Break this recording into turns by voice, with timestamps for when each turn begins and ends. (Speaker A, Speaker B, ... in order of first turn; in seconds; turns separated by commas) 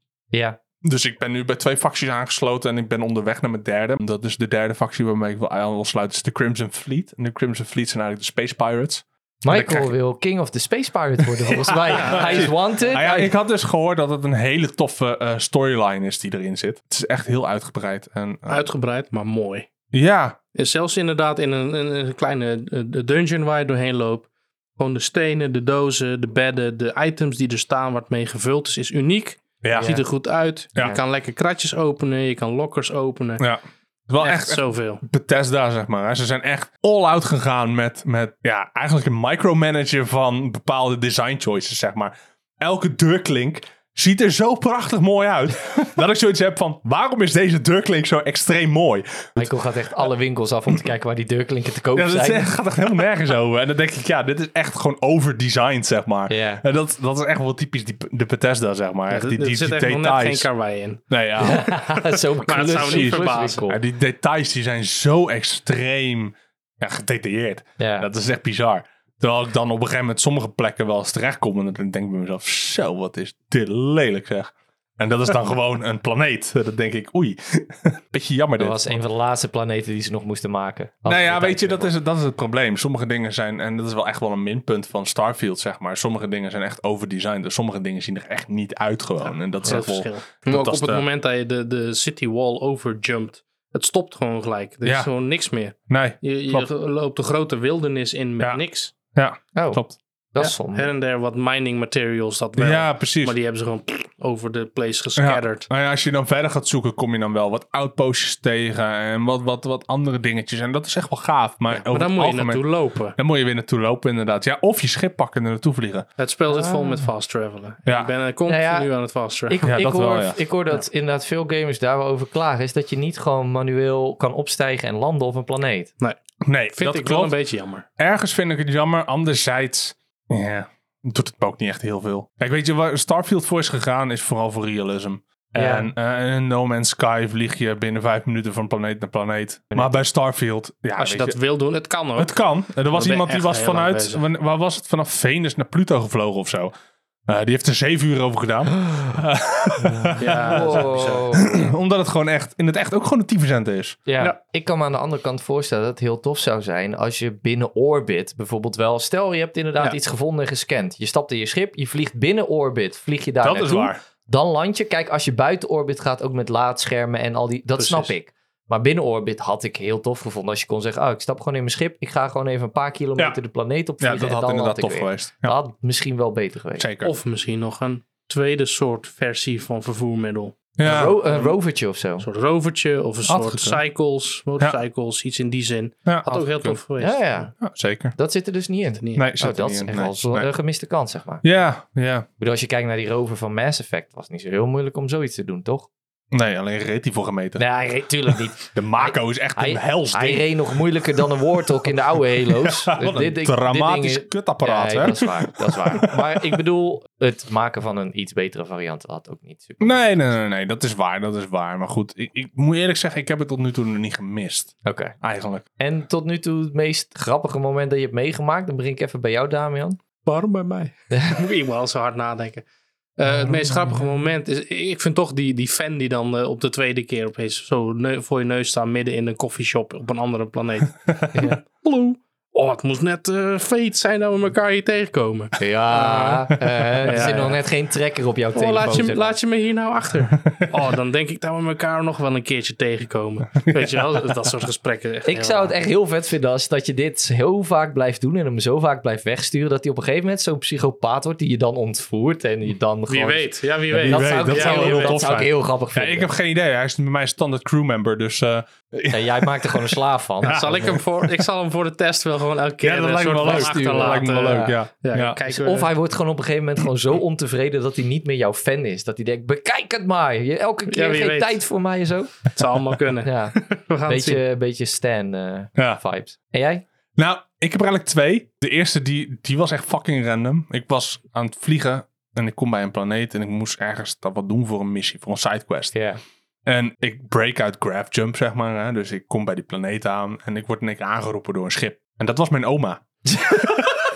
Speaker A: 0.3-0.6, Speaker B: 0.8-9.9, Speaker A: 9.4-13.3, Speaker B: 11.2-18.7, Speaker C: 11.9-12.6, Speaker C: 18.5-19.7, Speaker B: 19.9-20.4, Speaker C: 20.6-33.5, Speaker B: 29.6-30.0, Speaker A: 29.7-30.0, Speaker B: 33.4-49.5, Speaker C: 34.2-35.0, Speaker A: 49.4-52.5, Speaker B: 51.9-60.5, Speaker A: 56.3-56.6, Speaker C: 59.1-61.0, Speaker B: 61.1-62.0, Speaker A: 61.4-63.8, Speaker C: 62.5-63.6, Speaker B: 62.6-79.0, Speaker A: 67.8-68.1, Speaker A: 78.6-81.9, Speaker B: 81.1-91.0, Speaker C: 89.6-99.0, Speaker B: 94.8-95.1, Speaker B: 95.9-96.7, Speaker B: 99.1-100.0, Speaker A: 99.5-99.8, Speaker A: 100.3-100.9, Speaker C: 100.4-105.7, Speaker B: 102.6-103.4, Speaker B: 105.2-116.1, Speaker C: 111.8-113.2, Speaker C: 116.2-119.6, Speaker A: 116.5-117.1, Speaker B: 117.9-118.1, Speaker A: 118.5-118.9, Speaker A: 119.5-125.9, Speaker B: 119.7-120.4, Speaker B: 126.4-127.3, Speaker C: 126.7-127.9, Speaker B: 128.0-141.4, Speaker A: 135.6-135.9, Speaker A: 139.7-140.0, Speaker C: 141.0-142.3, Speaker B: 142.2-146.7, Speaker C: 142.9-144.2, Speaker B: 147.3-154.0, Speaker A: 150.0-151.5, Speaker C: 150.2-151.4, Speaker A: 154.1-176.9, Speaker B: 163.4-164.0, Speaker C: 167.8-168.1, Speaker B: 174.0-175.6, Speaker B: 176.8-177.1, Speaker C: 177.0-181.6, Speaker B: 180.8-181.2, Speaker A: 180.8-182.2, Speaker C: 182.2-187.4, Speaker B: 183.3-183.8, Speaker B: 186.1-186.8, Speaker A: 187.0-187.5, Speaker B: 187.6-188.2, Speaker A: 188.2-191.4, Speaker C: 189.0-189.2, Speaker B: 189.2-190.5, Speaker B: 191.4-192.3, Speaker A: 192.4-195.9, Speaker B: 196.3-197.6, Speaker A: 197.6-210.1, Speaker B: 198.6-200.5, Speaker B: 202.5-206.6, Speaker B: 209.8-215.7, Speaker A: 214.8-215.1, Speaker A: 215.8-220.0, Speaker C: 220.2-222.7, Speaker A: 221.1-221.4, Speaker C: 223.2-237.6, Speaker B: 231.1-231.4, Speaker A: 235.6-239.4, Speaker B: 237.0-237.4, Speaker C: 238.5-245.7, Speaker B: 240.4-240.7, Speaker B: 243.6-244.1, Speaker A: 245.2-256.3, Speaker C: 253.1-255.2, Speaker B: 253.9-261.4, Speaker A: 259.1-261.0, Speaker C: 260.5-265.9, Speaker B: 262.8-265.4, Speaker A: 263.4-264.7, Speaker A: 265.5-272.5, Speaker C: 270.9-271.6, Speaker C: 272.5-274.4, Speaker A: 273.2-276.9, Speaker B: 277.2-285.9, Speaker A: 285.9-286.2, Speaker B: 286.7-293.9, Speaker A: 293.3-293.9